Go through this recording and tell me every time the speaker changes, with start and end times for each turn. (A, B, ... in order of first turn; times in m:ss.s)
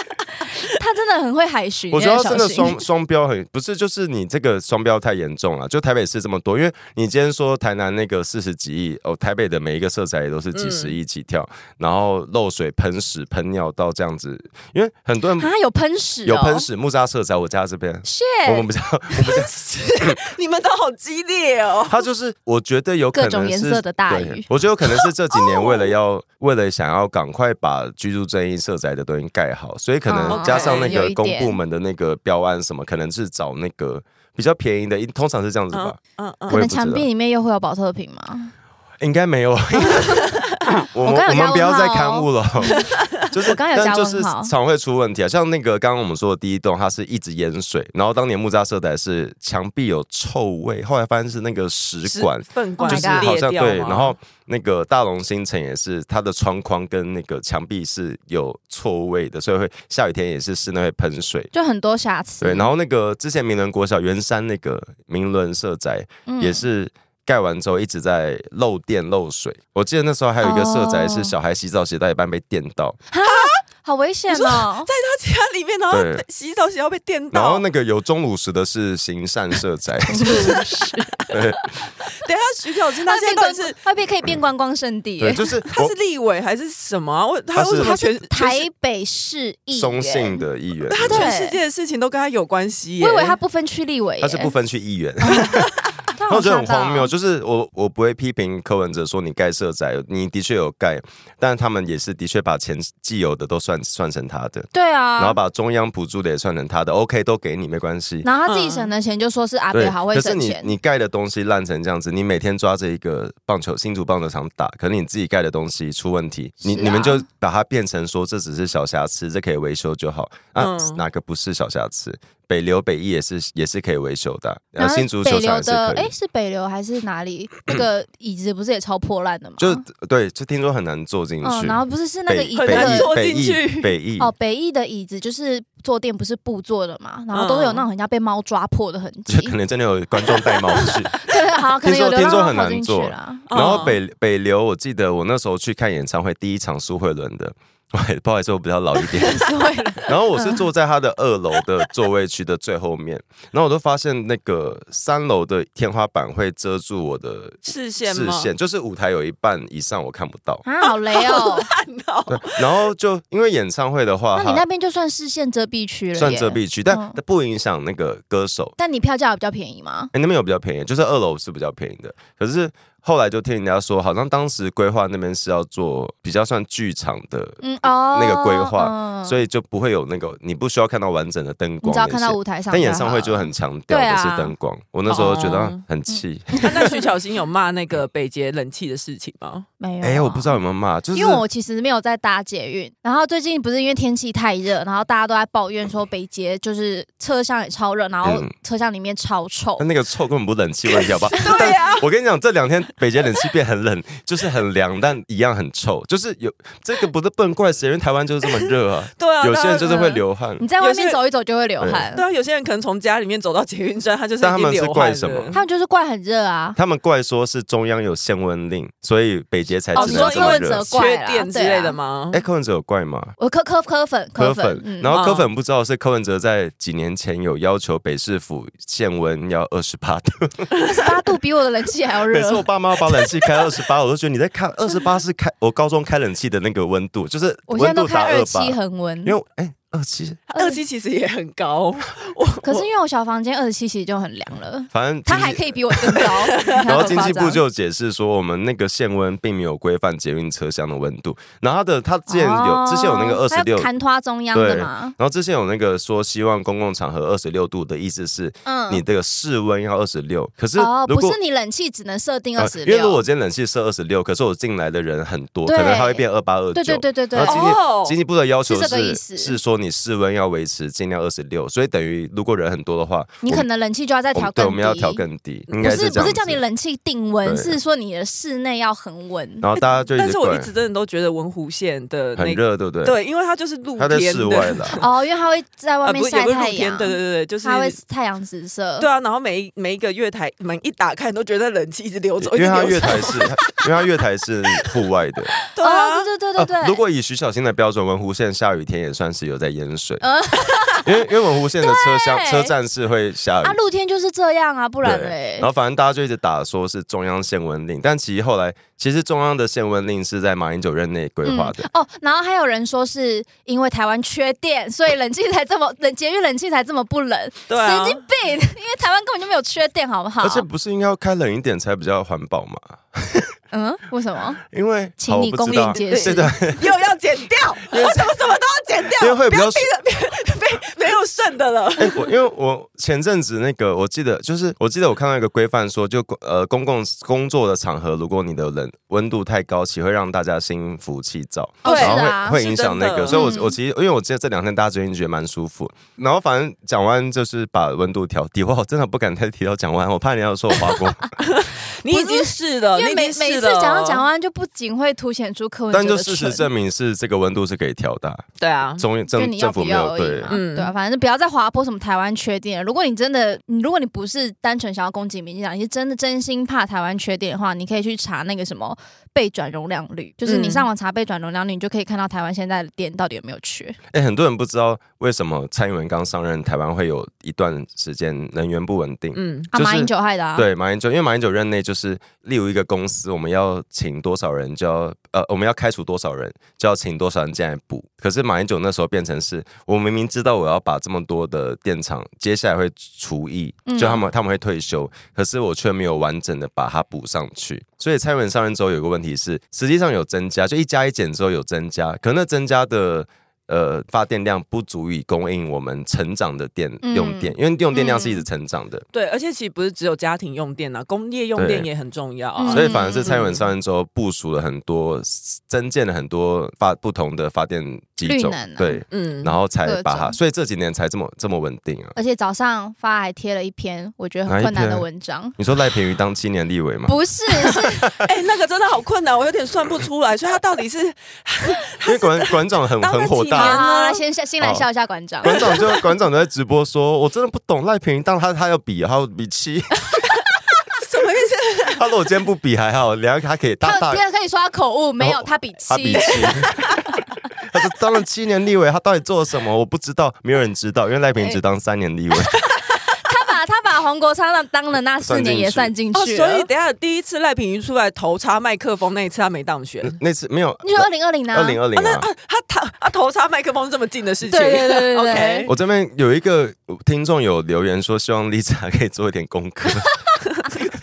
0:00.7-0:02.8 A
0:01.9-0:15.5 B
0:10.5-0:11.0 C
0:15.4-0:16.7 A
0:16.2-0:19.5 B
0:18.0-0:18.7 A
0:19.2-0:22.0 C
0:21.9-0:36.0 B
0:23.1-0:24.5 A
0:25.3-0:25.9 A
0:30.1-0:31.6 A
0:30.2-0:31.0 C
0:35.7-0:36.6 C
0:36.5-0:37.0 B
0:36.5-0:38.5 A
0:39.0-1:01.5 B
0:41.0-0:42.8 A
0:42.8-0:43.1 C
0:43.4-0:44.5 A
0:52.0-0:54.2 C
0:52.8-0:53.3 A
1:01.5-1:02.7 A
1:02.4-1:13.0 B
1:06.3-1:06.6 A
1:10.4-1:11.3 A
1:13.1-1:14.9 A
1:13.3-1:13.6 C
1:14.3-1:17.6 C
1:15.9-1:16.2 B
1:17.3-1:20.5 B
1:20.0-1:21.2 A
1:21.3-1:21.7 B
1:22.1-1:23.8 C
1:23.1-1:25.4 A
1:25.2-1:25.9 B
1:25.7-1:28.7 C
1:27.5-1:27.9 B
1:27.7-1:30.4 A
1:29.7-1:31.3 B
1:30.9-1:33.4 C
1:31.1-1:31.6 A
1:33.0-1:34.5 A
1:34.2-1:35.7 B
1:35.2-1:35.6 A
1:36.1-1:37.1 A
1:36.3-1:48.3 B
1:44.7-1:45.4 A
1:48.2-1:50.7 A
1:48.5-1:48.9 C
1:49.7-2:06.1 B
1:56.6-1:57.2 A
2:00.6-2:01.0 C
2:04.8-2:09.8 A
2:09.6-2:14.3 B
2:11.4-2:13.2 A
2:12.6-2:13.9 C
2:14.2-2:19.6 A
2:17.3-2:17.9 C
2:19.3-2:21.2 B
2:21.1-2:23.5 A
2:21.8-2:29.5 B
2:23.5-2:24.0 C
2:29.1-2:30.6 A
2:30.0-2:40.6 B
2:37.6-2:38.5 C
2:40.6-2:41.7 A
2:40.8-2:42.9 C
2:42.3-2:44.6 B
2:44.3-2:47.2 A
2:46.2-2:48.8 B
2:48.8-2:50.1 A
2:50.1-3:06.9 B
2:57.6-2:59.4 A
3:01.8-3:04.5 A
3:05.1-3:05.8 C
3:06.1-3:06.9 A
3:06.6-3:09.7 C
3:09.8-3:10.6 A
3:10.0-3:11.4 B
3:11.1-3:19.9 A
3:18.2-3:18.5 B
3:19.8-3:30.6 B
3:21.4-3:21.7 A
3:21.4-3:22.1 C
3:29.2-3:30.2 C
3:30.6-3:32.2 A
3:30.8-3:31.2 C
3:32.1-3:35.6 C
3:34.4-3:35.6 B
3:35.5-3:36.8 A
3:36.8-3:40.9 B
3:39.9-3:42.4 C
3:40.0-3:42.0 A
3:42.3-3:43.3 B
3:43.4-3:45.2 A
3:44.4-3:50.7 B
3:45.1-3:45.5 C
3:50.8-3:53.3 A
3:52.3-4:00.4 B
3:57.7-3:59.4 A
4:00.6-4:02.9 C
4:02.6-4:07.6 A
4:04.9-4:13.9 B
4:06.2-4:07.0 C
4:12.3-4:15.2 A
4:14.5-4:21.4 B
4:18.6-4:19.0 A
4:20.8-4:23.2 A
4:22.6-4:33.7 B
4:25.7-4:27.7 A
4:27.4-4:28.2 C
4:28.7-4:29.6 A
4:33.4-4:35.2 A
4:34.3-4:36.6 B
4:35.8-4:39.7 A
4:37.4-4:37.8 B
4:39.6-4:40.7 B
4:40.1-4:45.0 C
4:42.4-4:43.2 B
4:44.0-4:45.0 B
4:45.0-4:49.1 A
4:46.0-4:48.0 C
4:49.0-4:53.8 C
4:52.4-4:55.5 B
4:55.7-4:56.3 C
4:55.8-4:57.0 A
4:56.6-5:00.2 B
5:00.2-5:01.1 A
5:01.0-5:03.8 B
5:01.8-5:02.7 A
5:03.6-5:05.7 A
5:05.0-5:11.9 B
5:11.4-5:20.7 A
5:17.7-5:18.2 C
5:20.4-5:23.6 B
5:23.7-5:24.6 A
5:24.7-5:26.9 B
5:25.2-5:26.5 A
5:25.9-5:32.3 C
5:27.9-5:28.4 B
5:29.2-5:29.9 B
5:32.0-5:51.4 B
5:41.8-5:42.6 A
5:41.8-5:43.5 C
5:43.3-5:43.7 A
5:51.4-5:54.2 C
5:52.1-5:56.7 A
5:55.9-5:58.4 B
5:58.6-5:59.0 C
5:59.0-6:00.6 B
5:59.3-6:14.0 A
6:00.5-6:00.9 C
6:10.4-6:10.9 C
6:14.1-6:49.0 B
6:19.4-6:19.7 C
6:19.7-6:20.7 A
6:33.9-6:34.2 A
6:47.0-6:48.4 A
6:49.1-6:53.6 C
6:51.6-6:51.9 B
6:52.6-6:53.3 A
6:52.7-7:02.1 B
6:58.2-6:59.0 A
6:59.1-6:59.5 C
6:59.8-7:00.4 A
7:02.2-7:05.6 A
7:04.5-7:05.1 B
7:05.6-7:08.3 B
7:07.1-7:08.1 A
7:08.2-7:14.2 C
7:12.0-7:13.8 B
7:13.6-7:15.8 A
7:15.4-7:20.2 B
7:15.5-7:16.0 C
7:21.0-7:22.0 C
7:22.0-7:24.2 B
7:23.8-7:26.6 A
7:25.2-7:26.8 B
7:26.2-7:27.0 C
7:27.7-7:32.6 B
7:33.0-7:36.7 A
7:35.2-7:35.9 B
7:36.1-7:40.2 C
7:40.0-7:42.3 B
7:40.8-7:41.8 A
7:42.0-7:45.7 C
7:44.5-7:45.7 A
7:45.7-7:50.2 B